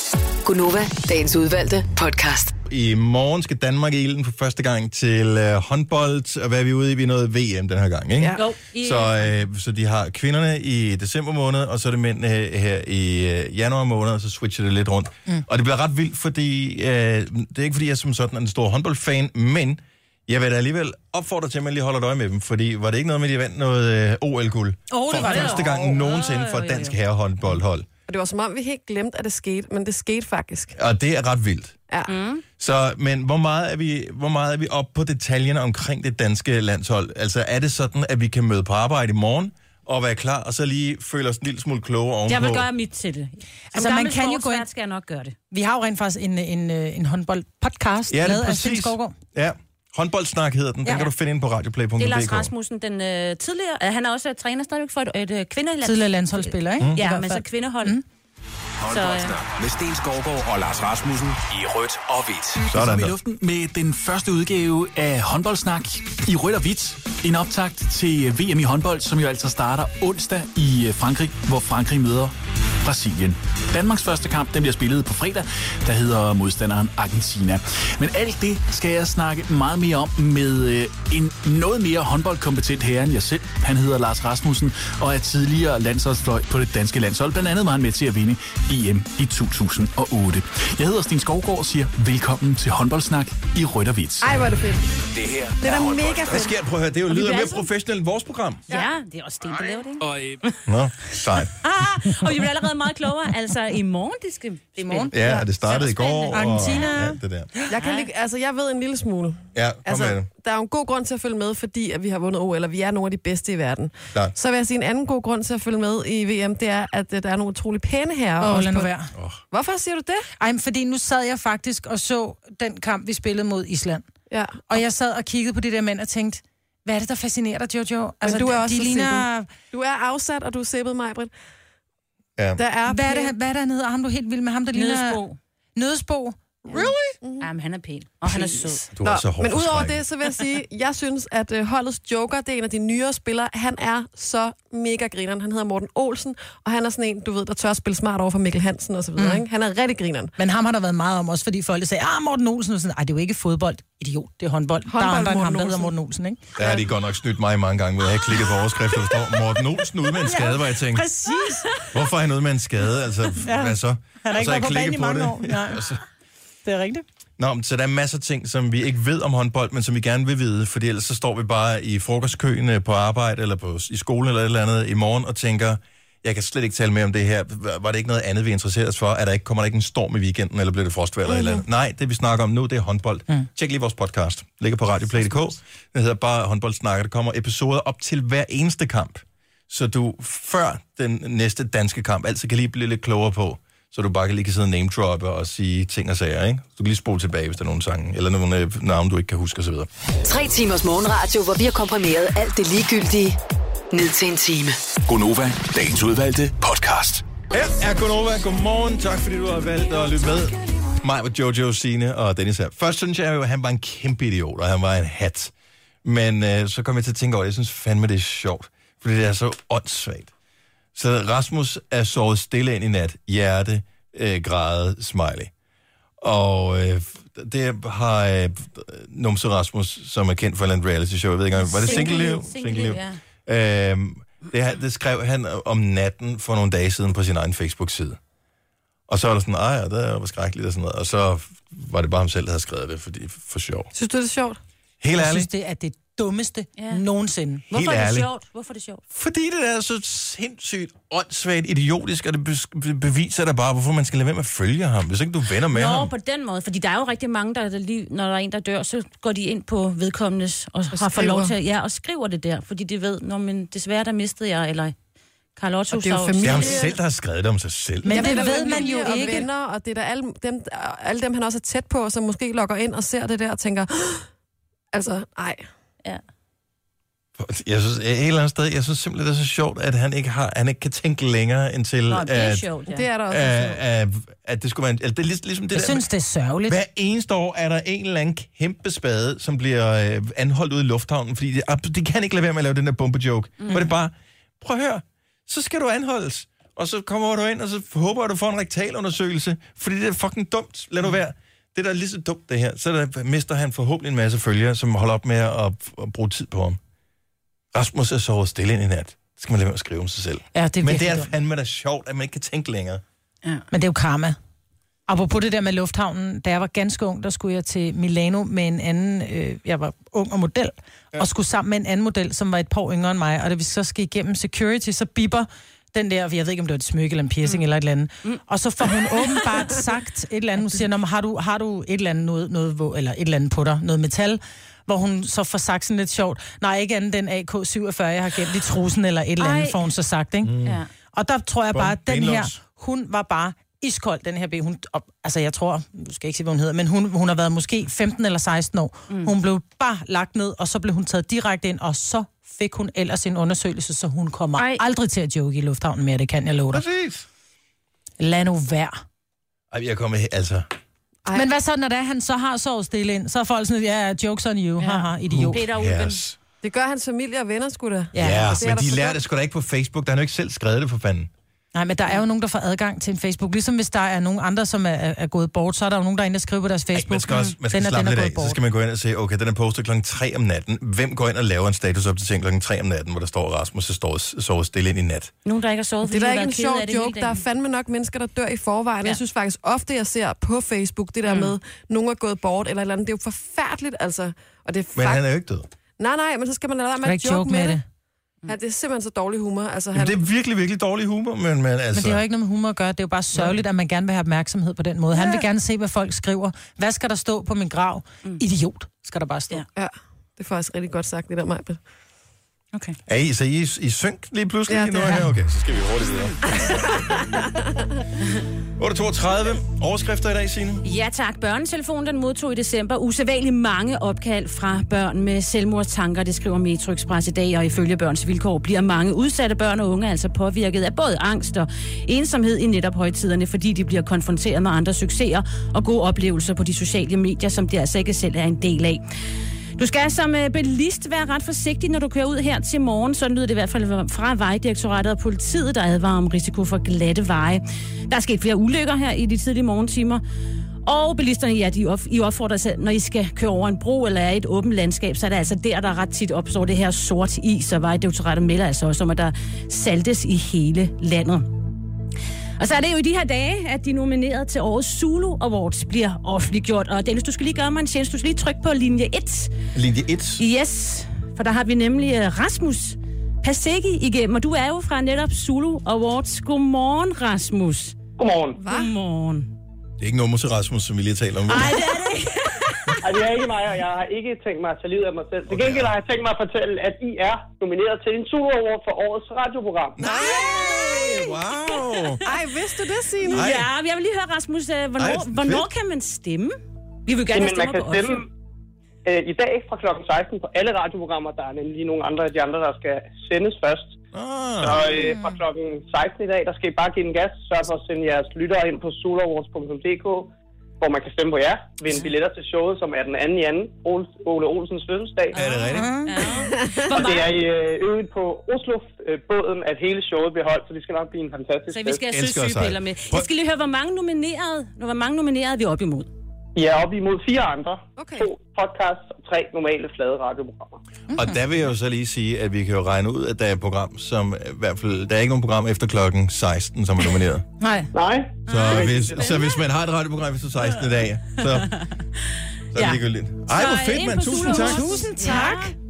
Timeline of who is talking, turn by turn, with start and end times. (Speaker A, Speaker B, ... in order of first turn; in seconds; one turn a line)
Speaker A: 0.5-2.5
Speaker B: 2.6-27.9
Speaker C: 8.2-8.4
Speaker D: 8.4-9.3
Speaker E: 24.9-25.7
Speaker D: 25.2-27.0
Speaker C: 28.1-30.7
Speaker B: 30.8-31.7
Speaker D: 32.1-32.4
Speaker B: 32.6-42.6
Speaker D: 42.3-45.3
Speaker E: 43.7-44.6
Speaker E: 45.5-49.1
Speaker B: 48.1-52.5
Speaker E: 50.8-51.1
Speaker D: 52.0-58.0
Speaker E: 55.8-58.0
Speaker F: 58.8-62.6
Speaker D: 58.9-59.4
Speaker G: 62.7-94.4
Speaker B: 62.7-63.1
Speaker C: 94.2-95.0
Speaker F: 95.1-96.5
Speaker C: 95.6-96.5
Speaker B: 96.3-98.6
Speaker D: 97.1-97.7
Speaker D: 98.7-100.6
Speaker F: 99.7-100.4
Speaker B: 100.7-101.5
Speaker D: 101.5-107.0
Speaker E: 104.8-105.4
Speaker B: 105.1-107.5
Speaker E: 106.3-107.7
Speaker C: 107.7-118.9
Speaker D: 107.7-108.1
Speaker B: 109.5-110.3
Speaker E: 118.4-119.1
Speaker B: 119.1-119.4
Speaker C: 119.5-120.3
Speaker E: 120.4-124.0
Speaker C: 124.3-124.7
Speaker E: 124.7-129.5
Speaker C: 128.2-131.3
Speaker B: 132.4-132.6
Speaker C: 132.6-133.3
Speaker E: 132.9-135.2
Speaker D: 134.7-135.4
Speaker E: 135.8-137.1
Speaker C: 136.7-137.5
Speaker D: 137.4-138.9
Speaker B: 138.9-140.0
Speaker C: 139.0-150.3
Speaker E: 149.2-149.4
Speaker E: 150.4-156.4
Speaker C: 154.9-155.9
Speaker B: 156.6-161.1
Speaker C: 156.6-156.9
Speaker E: 160.2-161.9
Speaker B: 161.9-166.0
Speaker E: 163.4-165.8
Speaker E: 166.6-167.0
Speaker B: 167.4-199.9
Speaker C: 181.3-181.6
Speaker A: 200.3-203.4
Speaker A: 203.9-204.8
Speaker F: 205.1-207.2
Speaker B: 207.5-215.5
Speaker B: 216.0-220.3
Speaker B: 220.9-225.5
Speaker B: 226.2-238.2
Speaker D: 231.6-233.2
Speaker B: 239.1-243.9
Speaker C: 243.9-244.6
Speaker B: 245.0-245.5
Speaker E: 245.2-247.6
Speaker D: 246.8-247.0
Speaker B: 247.7-248.3
Speaker D: 247.7-249.0
Speaker B: 249.1-256.1
Speaker D: 255.7-264.9
Speaker C: 261.1-261.5
Speaker D: 265.6-266.8
Speaker C: 265.9-267.0
Speaker B: 266.4-268.3
Speaker E: 268.0-269.4
Speaker C: 268.1-274.3
Speaker D: 268.4-269.3
Speaker C: 274.9-275.6
Speaker B: 277.4-282.6
Speaker D: 282.1-283.1
Speaker C: 282.9-283.8
Speaker B: 283.3-286.1
Speaker E: 285.7-286.8
Speaker B: 286.7-306.8
Speaker D: 293.6-293.9
Speaker B: 307.7-313.0
Speaker E: 310.6-311.3
Speaker E: 313.7-314.4
Speaker E: 315.1-340.5
Speaker D: 329.1-329.9
Speaker D: 339.4-339.9
Speaker B: 340.4-340.8
Speaker D: 340.6-340.9
Speaker E: 341.1-356.8
Speaker B: 341.7-342.6
Speaker D: 354.6-354.8
Speaker B: 356.7-357.3
Speaker E: 358.2-359.0
Speaker B: 359.7-360.7
Speaker C: 361.2-361.5
Speaker E: 361.3-365.6
Speaker D: 364.8-366.2
Speaker B: 365.3-366.4
Speaker C: 366.6-369.2
Speaker E: 368.1-368.6
Speaker B: 368.2-371.3
Speaker E: 371.7-378.6
Speaker B: 376.9-385.3
Speaker D: 385.4-387.4
Speaker C: 386.0-395.2
Speaker D: 391.3-391.6
Speaker B: 394.9-395.7
Speaker C: 396.0-397.8
Speaker E: 397.0-397.8
Speaker C: 398.5-400.2
Speaker B: 399.9-402.2
Speaker E: 401.9-409.6
Speaker C: 405.1-405.4
Speaker C: 409.7-411.8
Speaker B: 413.1-416.7
Speaker C: 414.7-415.2
Speaker C: 416.5-417.9
Speaker B: 418.8-420.8
Speaker D: 420.8-439.0
Speaker D: 439.8-450.2
Speaker D: 450.8-461.5
Speaker D: 462.6-469.5
Speaker B: 469.7-470.4
Speaker D: 470.4-478.0
Speaker H: 478.2-478.6
Speaker C: 478.6-478.9
Speaker D: 478.6-479.5
Speaker B: 480.0-481.8
Speaker D: 481.5-483.0
Speaker H: 483.0-490.0
Speaker B: 485.5-485.9
Speaker B: 490.0-492.3
Speaker C: 490.0-491.3
Speaker C: 492.2-493.5
Speaker D: 493.2-498.2
Speaker B: 493.3-493.7
Speaker B: 495.0-495.7
Speaker H: 497.3-498.3
Speaker H: 499.1-504.0
Speaker B: 504.1-504.9
Speaker H: 504.6-515.4
Speaker D: 515.3-517.3
Speaker B: 515.3-515.9
Speaker E: 515.7-516.3
Speaker C: 516.5-516.9
Speaker H: 516.9-522.0
Speaker D: 521.7-526.1
Speaker B: 522.1-523.3
Speaker H: 526.5-530.8
Speaker C: 528.0-528.3
Speaker B: 531.1-537.5
Speaker E: 537.6-537.9
Speaker H: 537.9-539.4
Speaker D: 538.5-539.6
Speaker B: 538.5-541.7
Speaker D: 541.3-542.0
Speaker B: 542.7-545.1
Speaker D: 542.7-545.8
Speaker E: 544.3-545.7